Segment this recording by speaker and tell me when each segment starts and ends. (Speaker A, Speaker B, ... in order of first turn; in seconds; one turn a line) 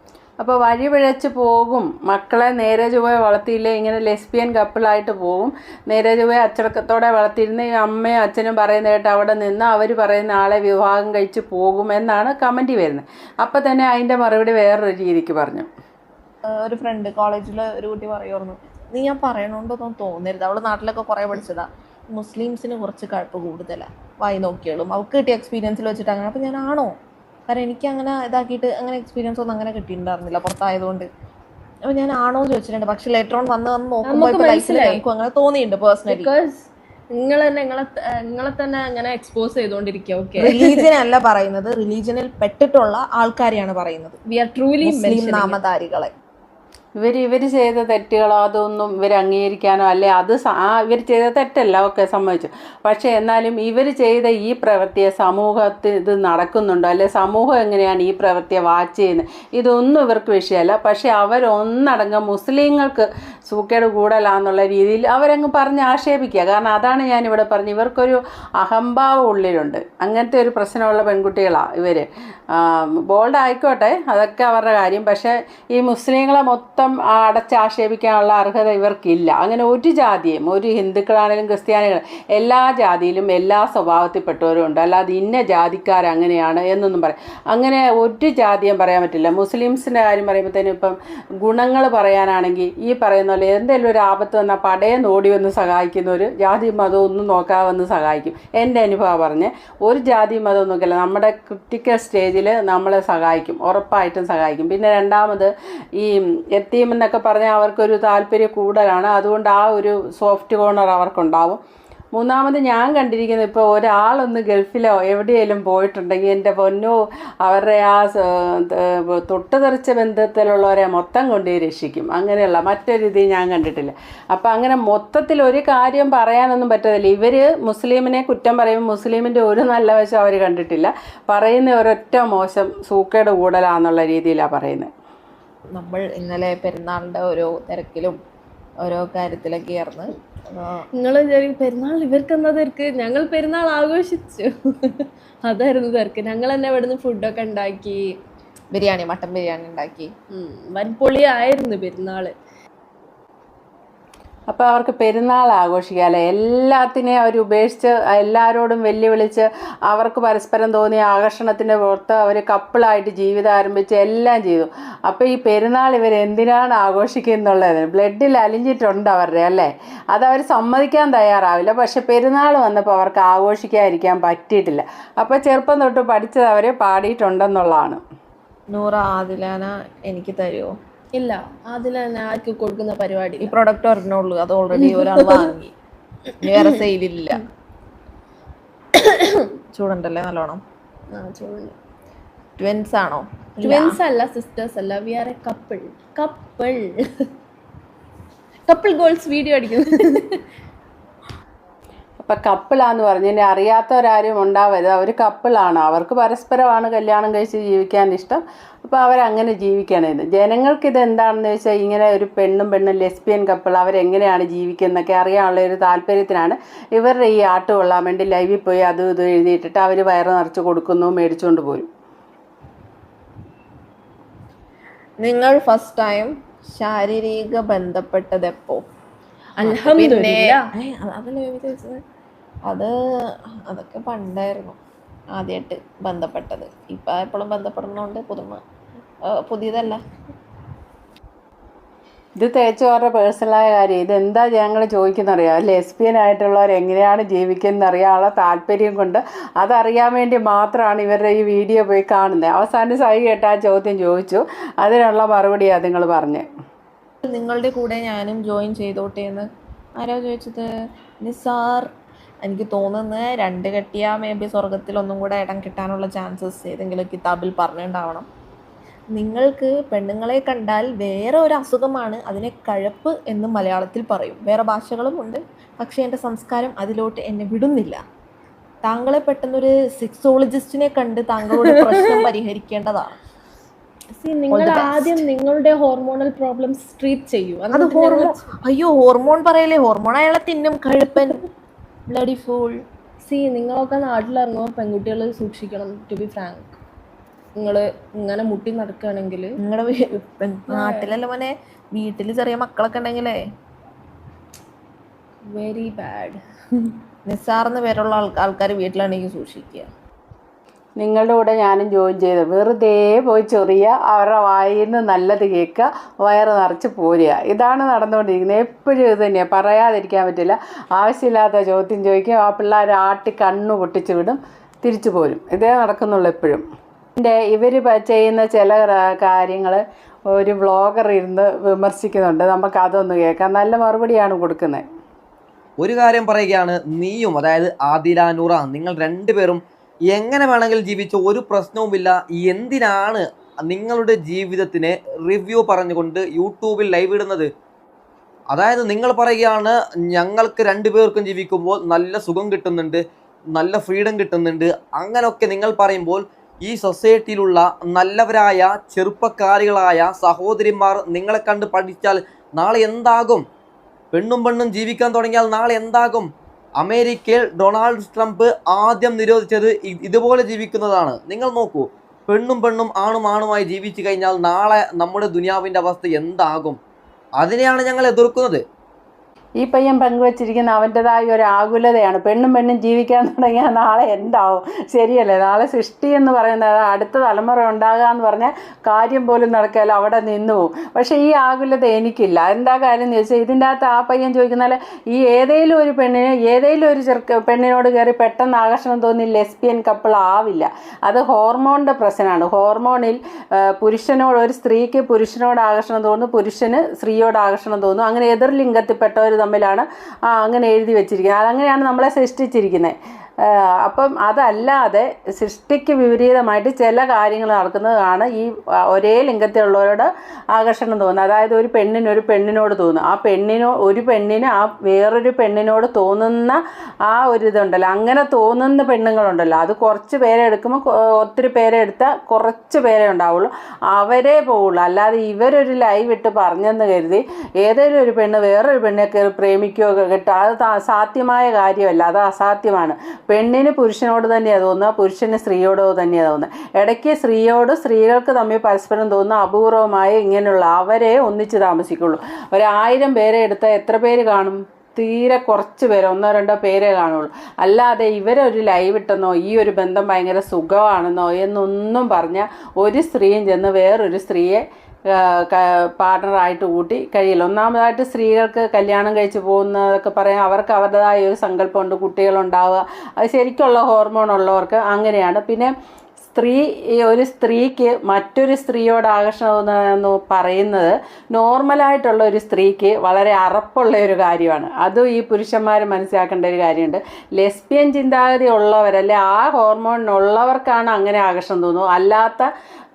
Speaker A: 0.4-15.7
Speaker B: 16.5-26.9
Speaker B: 27.5-31.1
Speaker B: 31.9-36.3
Speaker C: 34.1-35.0
Speaker C: 36.1-40.6
Speaker B: 40.4-44.2
Speaker C: 44.3-45.6
Speaker B: 44.8-46.1
Speaker A: 47.0-111.6
Speaker A: 112.2-134.9
Speaker B: 135.7-138.2
Speaker B: 138.8-140.9
Speaker C: 141.0-148.1
Speaker B: 148.7-150.1
Speaker C: 150.3-152.3
Speaker A: 154.5-178.0
Speaker B: 178.7-180.7
Speaker C: 181.2-183.6
Speaker B: 183.4-185.7
Speaker C: 184.8-185.4
Speaker B: 186.4-187.4
Speaker B: 189.7-190.6
Speaker C: 191.1-191.8
Speaker B: 192.6-194.0
Speaker C: 193.6-197.2
Speaker C: 198.7-200.4
Speaker A: 202.2-221.9
Speaker B: 225.2-228.8
Speaker C: 229.6-230.7
Speaker B: 229.6-232.0
Speaker B: 233.7-234.8
Speaker B: 235.3-238.6
Speaker B: 239.3-240.0
Speaker A: 242.4-256.4
Speaker B: 257.3-259.5
Speaker B: 260.0-260.7
Speaker B: 261.2-261.9
Speaker B: 262.4-268.3
Speaker B: 269.1-278.0
Speaker B: 278.9-283.2
Speaker C: 284.2-288.4
Speaker B: 284.5-285.2
Speaker B: 287.7-291.5
Speaker B: 292.1-292.8
Speaker C: 293.3-296.8
Speaker C: 297.6-299.6
Speaker B: 299.6-303.4
Speaker C: 300.7-301.1
Speaker C: 305.5-306.9
Speaker B: 307.3-309.9
Speaker A: 311.0-326.6
Speaker A: 327.2-334.8
Speaker D: 335.8-339.6
Speaker D: 340.1-347.5
Speaker D: 348.5-353.0
Speaker D: 353.6-363.4
Speaker D: 364.1-376.8
Speaker D: 377.4-378.6
Speaker A: 379.6-492.5